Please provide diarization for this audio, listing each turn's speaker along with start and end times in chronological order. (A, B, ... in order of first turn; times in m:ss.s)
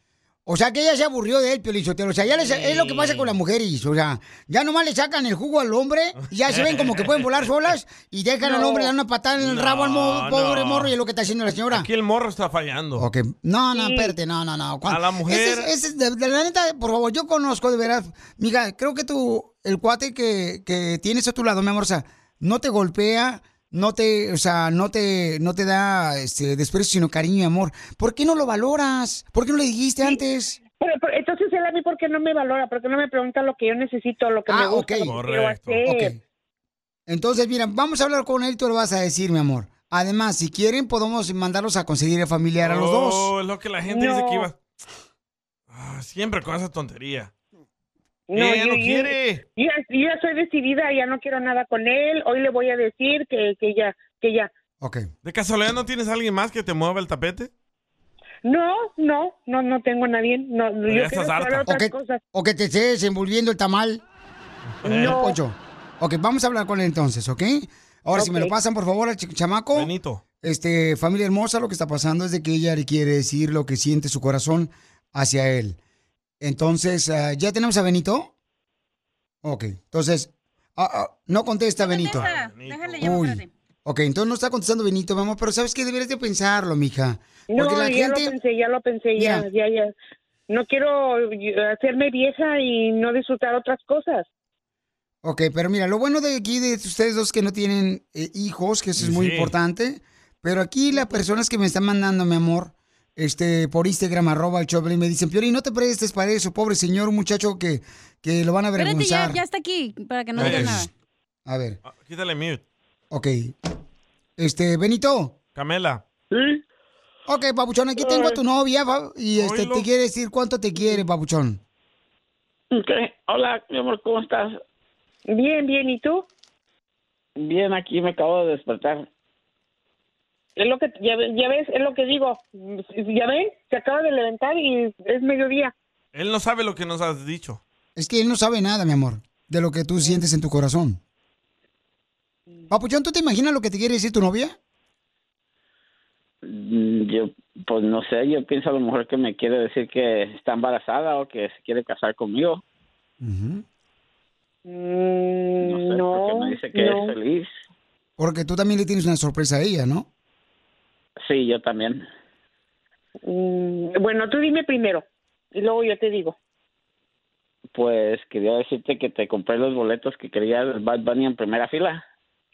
0:00.4-0:11.9 A
0:02.4-0:03.3 B
0:06.2-0:07.4 B
0:08.4-0:08.9 C
0:09.4-0:10.9 B
0:11.7-0:13.0 B
0:13.0-0:30.6 A
0:13.7-0:14.2 C
0:14.8-0:15.7 B
0:30.8-0:36.2 C
0:34.5-0:35.1 A
0:35.1-0:35.8 B
0:35.8-0:36.2 A
0:37.1-0:43.3 A
0:42.6-0:44.5 B
0:43.9-0:44.5 C
0:45.7-0:47.3 B
0:48.3-0:54.5 C
0:48.3-0:49.4 B
0:54.8-0:55.1 A
0:55.2-0:57.5 B
0:58.4-1:02.2 C
1:00.9-1:01.7 B
1:01.7-1:04.0 A
1:04.8-1:05.2 B
1:04.8-1:05.4 C
1:04.9-1:09.9 A
1:08.2-1:08.5 C
1:09.7-1:10.2 B
1:10.4-1:15.8 A
1:16.4-1:18.3 A
1:19.4-1:22.3 A
1:21.8-1:23.5 D
1:22.1-1:23.1 B
1:23.0-1:28.3 A
1:27.5-1:29.9 C
1:29.2-1:29.5 A
1:30.5-1:34.3 C
1:35.2-1:49.4 A
1:39.0-1:39.5 B
1:48.8-1:50.9 D
1:50.4-1:50.9 A
1:50.4-1:50.8 B
1:51.4-1:51.8 A
1:51.8-1:52.6 B
1:53.1-1:53.5 A
1:54.4-1:55.3 A
1:55.5-1:56.0 B
1:56.3-1:56.6 E
1:57.3-2:01.6 A
1:59.3-1:59.8 B
2:02.7-2:04.6 E
2:05.3-2:06.3 C
2:07.4-2:09.0 E
2:10.6-2:15.7 C
2:16.1-2:17.6 B
2:18.0-2:21.0 A
2:22.7-2:24.5 A
2:26.4-2:32.6 E
2:33.2-2:33.6 A
2:34.6-2:37.1 C
2:35.6-2:37.5 E
2:38.2-2:40.1 A
2:41.2-2:42.0 E
2:43.2-2:45.0 C
2:45.5-2:46.4 C
2:47.7-2:52.0 E